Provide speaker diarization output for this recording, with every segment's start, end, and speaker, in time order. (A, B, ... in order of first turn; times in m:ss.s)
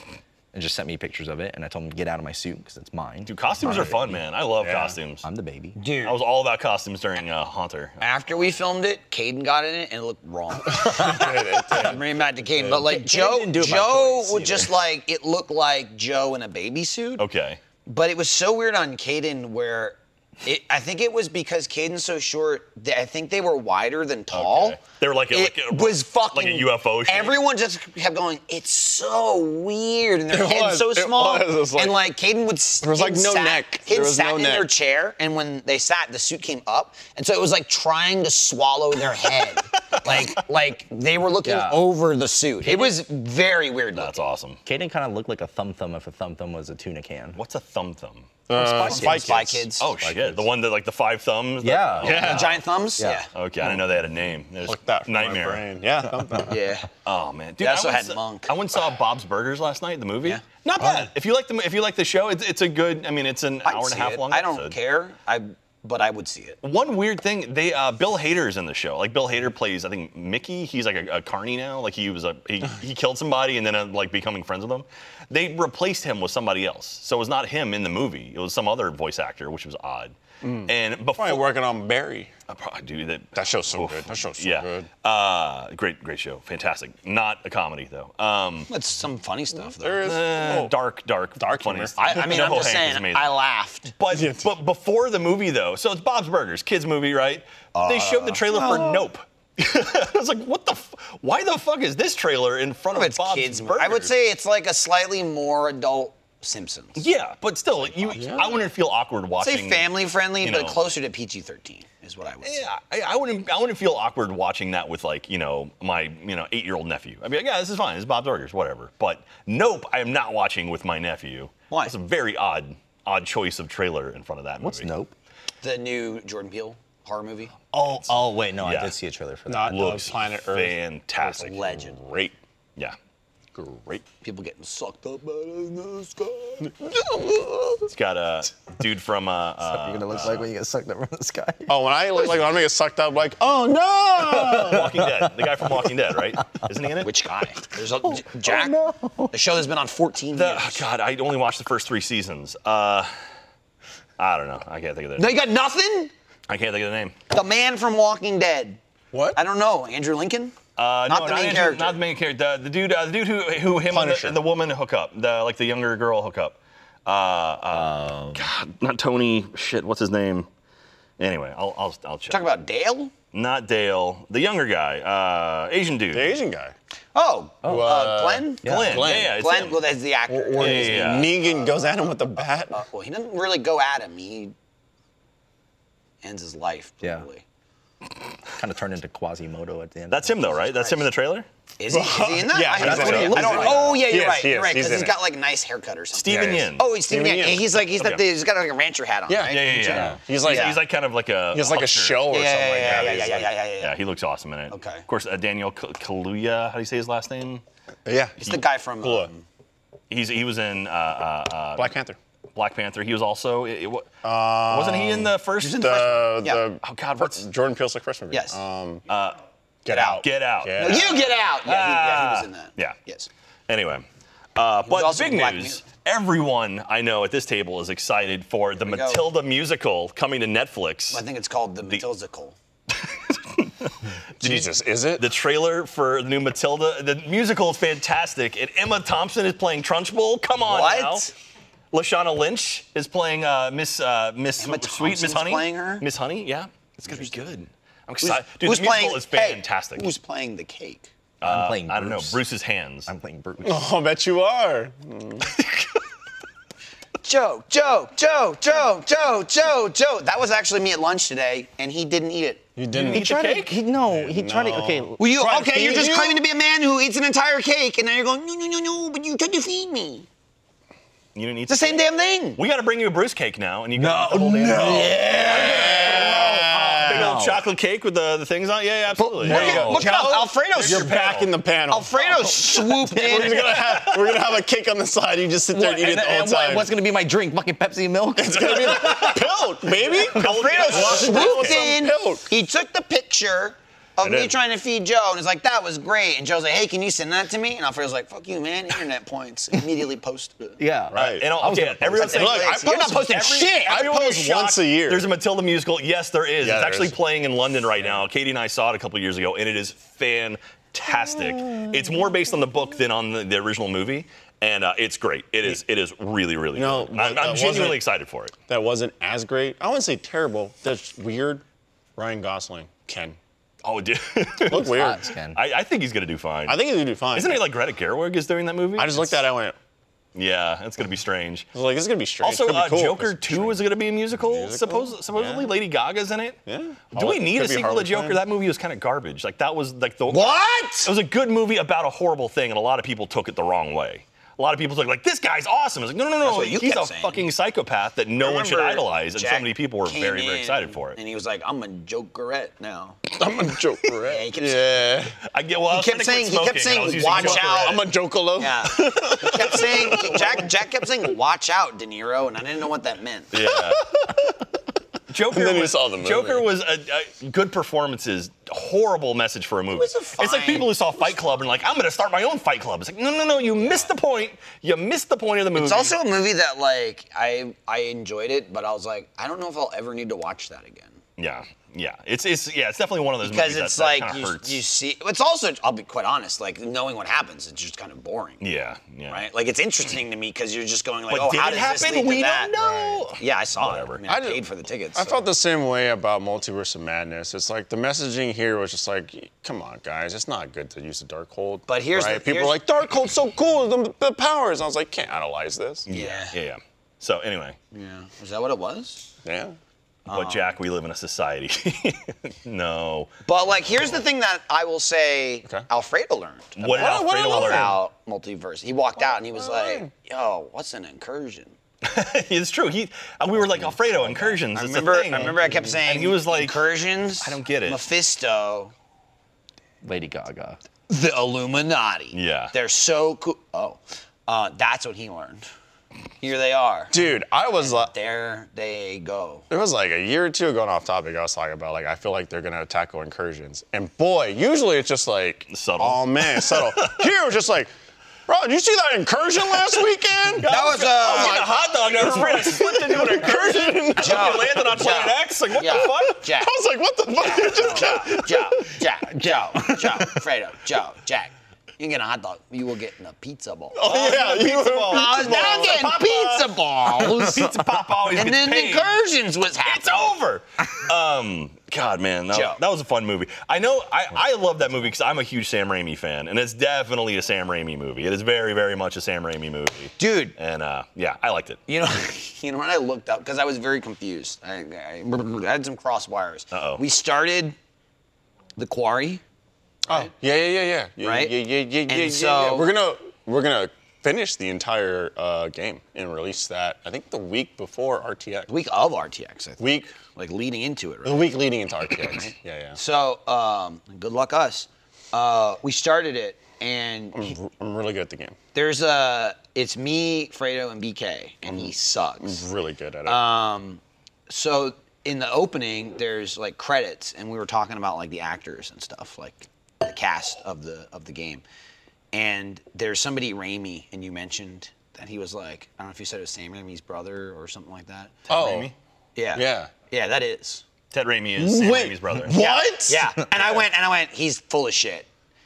0:00.5-0:04.1 A
0:03.2-0:05.2 B
0:03.6-0:04.0 C
0:04.6-0:05.0 C
0:05.2-0:05.8 A
0:05.8-0:06.2 D
0:06.0-0:08.0 B
0:08.0-0:17.2 D
0:10.7-0:12.0 C
0:12.6-0:14.7 A
0:17.2-0:17.6 B
0:17.8-0:24.8 D
0:24.3-0:27.4 B
0:25.3-0:44.3 D
0:30.3-0:32.0 C
0:32.8-0:34.7 C
0:39.9-0:40.3 B
0:41.4-0:41.8 A
0:43.9-0:44.6 B
0:44.6-0:47.4 A
0:47.3-0:48.3 B
0:48.5-0:50.5 C
0:48.5-0:49.9 D
0:48.8-0:49.2 B
0:49.8-0:52.6 B
0:51.6-0:52.4 A
0:52.0-0:53.3 D
0:52.0-0:52.4 C
0:53.3-0:55.6 B
0:54.6-0:56.6 C
0:56.5-0:56.9 D
0:57.0-1:04.7 B
0:57.6-0:58.5 D
1:03.6-1:06.6 D
1:06.6-1:20.1 B
1:20.4-1:22.3 C
1:20.6-1:21.5 B
1:22.5-1:28.7 B
1:23.3-1:24.9 C
1:28.7-1:30.1 D
1:29.8-1:30.7 C
1:30.0-1:33.3 B
1:31.4-1:32.4 C
1:32.0-1:33.9 D
1:34.0-1:44.1 B
1:34.1-1:34.5 C
1:37.7-1:39.0 D
1:42.9-1:47.0 D
1:47.0-1:50.8 B
1:47.8-1:48.4 D
1:48.1-1:48.5 C
1:49.4-1:52.7 D
1:52.4-2:04.9 B
2:01.7-2:01.9 D
2:04.6-2:05.1 A
2:05.6-2:07.5 D
2:07.7-2:08.9 B
2:07.8-2:10.0 A
2:09.5-2:12.4 C
2:09.6-2:11.6 B
2:11.3-2:12.0 D
2:13.5-2:14.0 C
2:14.2-2:16.7 D
2:17.9-2:20.5 B
2:19.6-2:21.7 A
2:21.7-2:24.9 C
2:24.2-2:25.8 A
2:24.5-2:27.1 B
2:27.0-2:28.8 D
2:28.0-2:29.3 A
2:29.3-2:30.8 D
2:30.3-2:33.1 B
2:34.2-2:35.3 B
2:35.2-2:36.1 D
2:36.5-2:37.1 B
2:37.3-2:38.8 D
2:39.1-2:39.4 C
2:39.3-2:40.5 D
2:40.8-2:50.5 B
2:41.1-2:42.0 D
2:43.9-2:44.4 C
2:47.7-2:48.4 A
2:51.2-2:52.4 B
2:52.3-2:53.1 D
2:53.3-2:56.4 B
2:56.1-2:56.7 C
2:57.1-3:01.6 D
2:57.6-2:57.9 A
2:57.6-2:59.4 C
2:58.6-2:59.1 A
2:58.6-2:59.8 B
3:00.3-3:02.8 C
3:00.6-3:01.4 B
3:02.7-3:04.5 D
3:06.2-3:07.4 D
3:08.5-3:10.5 A
3:10.1-3:11.5 B
3:10.6-3:11.0 D
3:11.8-3:20.8 D
3:11.9-3:15.2 C
3:12.8-3:14.0 B
3:16.1-3:16.8 B
3:16.2-3:17.8 C
3:19.3-3:20.8 C
3:19.5-3:23.3 B
3:21.5-3:23.5 C
3:22.3-3:24.0 D
3:23.8-3:27.6 B
3:24.7-3:25.0 D
3:28.0-3:28.4 C
3:28.4-3:29.4 D
3:29.0-3:29.3 C
3:30.1-3:31.9 B
3:31.8-3:32.2 C
3:32.5-3:36.2 B
3:34.2-3:39.0 C
3:35.6-3:36.6 D
3:36.8-3:37.4 B
3:38.3-3:38.6 D
3:39.1-3:39.4 B
3:39.8-3:41.3 C
3:39.9-3:43.0 B
3:39.9-3:40.2 D
3:40.8-3:43.3 D
3:43.7-3:51.2 B
3:44.8-3:45.8 D
3:48.8-3:49.3 D
3:51.1-3:52.6 D
3:53.3-4:01.3 B
3:54.4-3:55.2 C
4:00.6-4:01.3 D
4:01.9-4:10.1 B
4:04.6-4:06.0 D
4:07.0-4:07.3 D
4:08.2-4:11.1 D
4:11.4-4:13.1 B
4:11.4-4:12.4 A
4:13.1-4:13.9 A
4:13.6-4:15.5 C
4:17.2-4:22.6 D
4:22.8-4:26.4 C
4:22.9-4:23.8 B
4:23.1-4:25.2 A
4:25.2-4:30.3 D
4:31.3-4:32.0 B
4:31.7-4:32.6 D
4:32.6-4:40.1 B
4:34.0-4:37.6 A
4:34.8-4:36.4 D
4:35.4-4:37.4 C
4:39.2-4:40.3 A
4:39.4-4:41.1 D
4:39.4-4:42.1 C
4:40.7-4:41.5 B
4:41.9-4:43.7 D
4:42.2-4:44.0 A
4:43.2-4:46.9 C
4:43.9-4:44.3 B
4:45.7-4:49.5 A
4:48.4-4:52.4 C
4:48.8-4:49.4 B
4:50.1-4:51.7 B
4:50.3-5:00.8 D
4:51.4-4:51.7 A
4:54.2-4:54.5 C
5:00.8-5:02.6 A
5:01.1-5:01.4 C
5:01.2-5:18.5 B
5:02.2-5:04.1 D
5:02.2-5:05.2 C
5:06.6-5:07.1 C
5:16.8-5:18.0 C
5:18.7-5:21.6 C
5:22.2-5:23.4 C
5:23.8-5:25.0 B
5:24.6-5:25.2 C
5:24.8-5:25.6 A
5:25.5-5:29.4 B
5:26.7-5:27.6 C
5:29.0-5:29.7 C
5:30.3-5:31.7 B
5:31.7-5:35.7 C
5:32.4-5:36.6 B
5:36.7-5:38.4 C
5:37.1-5:51.2 B
5:40.3-5:41.1 D
5:46.4-5:47.5 D
5:48.4-5:53.2 D
5:53.4-5:55.4 C
5:54.2-5:54.8 D
5:55.5-5:58.1 B
5:55.9-6:03.5 D
5:57.2-6:00.7 C
6:03.5-6:04.0 B
6:03.6-6:04.5 C
6:05.3-6:16.1 B
6:05.5-6:06.6 C
6:09.9-6:10.9 D
6:15.7-6:21.2 D
6:21.4-6:24.8 B
6:23.4-6:28.6 D
6:28.6-6:29.5 B
6:29.3-6:35.4 D
6:31.3-6:34.2 B
6:34.2-6:46.1 C
6:41.9-6:42.8 D
6:46.1-6:47.8 B
6:46.1-6:46.5 D
6:47.9-6:49.3 D
6:49.4-6:49.7 C
6:50.2-6:50.7 D
6:50.3-6:53.3 B
6:53.4-7:01.7 D
6:56.8-6:58.0 B
6:56.9-6:58.0 C
6:59.2-7:00.1 C
7:02.0-7:08.0 B
7:04.2-7:04.6 A
7:04.7-7:08.9 D
7:10.0-7:10.8 A
7:11.1-7:15.6 D
7:12.3-7:12.7 B
7:16.4-7:17.1 D
7:17.1-7:18.1 C
7:17.8-7:19.6 D
7:19.7-7:27.9 C
7:25.7-7:27.3 B
7:28.5-7:34.9 C
7:29.7-7:30.0 B
7:30.6-7:36.4 B
7:30.6-7:31.7 D
7:34.2-7:36.7 D
7:35.9-7:39.0 C
7:37.3-7:47.7 D
7:39.8-7:40.3 C
7:43.9-7:46.1 C
7:44.0-7:49.1 B
7:48.3-7:50.4 D
7:49.8-8:01.8 B
7:52.5-7:52.8 D
8:00.2-8:00.5 D
8:01.9-8:07.8 D
8:06.7-8:07.0 B
8:08.8-8:09.4 D
8:10.1-8:18.7 C
8:11.2-8:11.5 D
8:12.1-8:12.9 D
8:18.7-8:21.5 D
8:19.8-8:20.1 C
8:21.2-8:23.0 C
8:22.3-8:27.5 D
8:27.3-8:28.6 C
8:28.7-8:32.6 D
8:32.4-8:33.4 C
8:33.2-8:41.6 D
8:42.3-8:48.4 D
8:48.5-8:48.9 C
8:48.5-8:48.9 B
8:49.3-8:50.8 D
8:49.5-8:49.9 C
8:51.1-8:52.6 B
8:51.6-8:53.8 C
8:52.5-8:55.3 D